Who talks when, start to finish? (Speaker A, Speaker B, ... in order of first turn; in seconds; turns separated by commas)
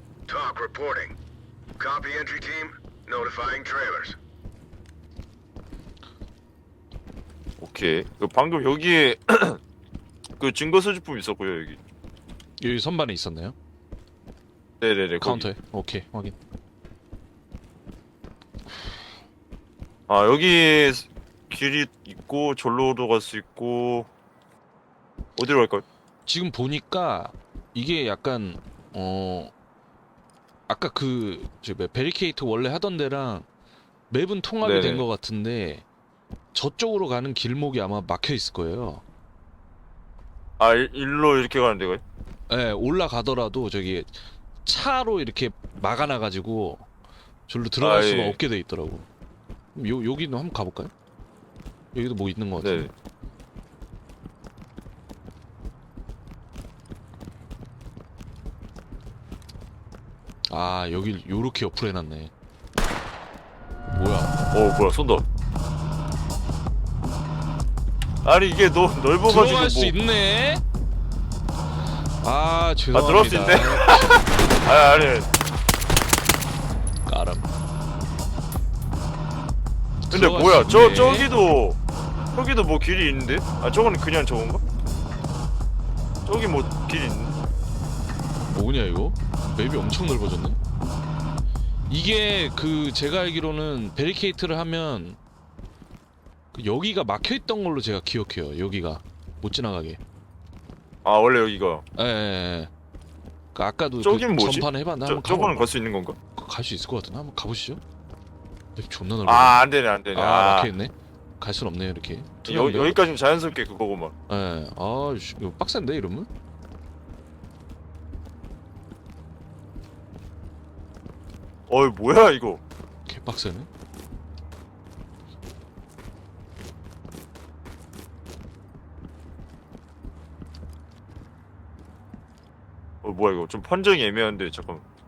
Speaker A: 0.3-1.1, Speaker A: 1.8-4.2, Speaker B: 7.6-9.6, Speaker B: 10.4-11.8, Speaker C: 12.6-13.6, Speaker B: 14.8-15.5, Speaker C: 15.2-16.4, Speaker B: 20.1-24.1, Speaker B: 25.4-25.8, Speaker C: 26.3-29.5, Speaker C: 30.7-33.5, Speaker C: 34.1-35.8, Speaker B: 34.6-35.0, Speaker C: 36.5-39.0, Speaker B: 40.6-42.0, Speaker C: 42.5-46.9, Speaker C: 47.5-49.1, Speaker B: 47.8-48.4, Speaker C: 49.7-50.9, Speaker C: 51.9-52.9, Speaker B: 52.6-52.9, Speaker C: 60.5-62.3, Speaker C: 63.9-64.3, Speaker B: 64.5-65.2, Speaker B: 68.2-69.9, Speaker C: 69.2-70.6, Speaker C: 72.2-74.3, Speaker B: 72.9-75.3, Speaker C: 77.0-77.5, Speaker C: 80.1-81.3, Speaker B: 80.1-81.8, Speaker B: 82.3-84.6, Speaker B: 86.2-87.3, Speaker C: 88.5-90.6, Speaker C: 91.9-95.2, Speaker C: 96.5-100.0, Speaker B: 101.0-101.8, Speaker C: 102.0-102.7, Speaker C: 103.5-105.7, Speaker B: 104.0-106.2, Speaker C: 106.3-107.8, Speaker C: 108.8-109.6, Speaker B: 109.2-110.7, Speaker C: 110.1-113.0, Speaker B: 112.5-114.1, Speaker C: 114.3-116.3, Speaker B: 121.7-122.6, Speaker C: 123.0-123.7, Speaker B: 133.0-134.8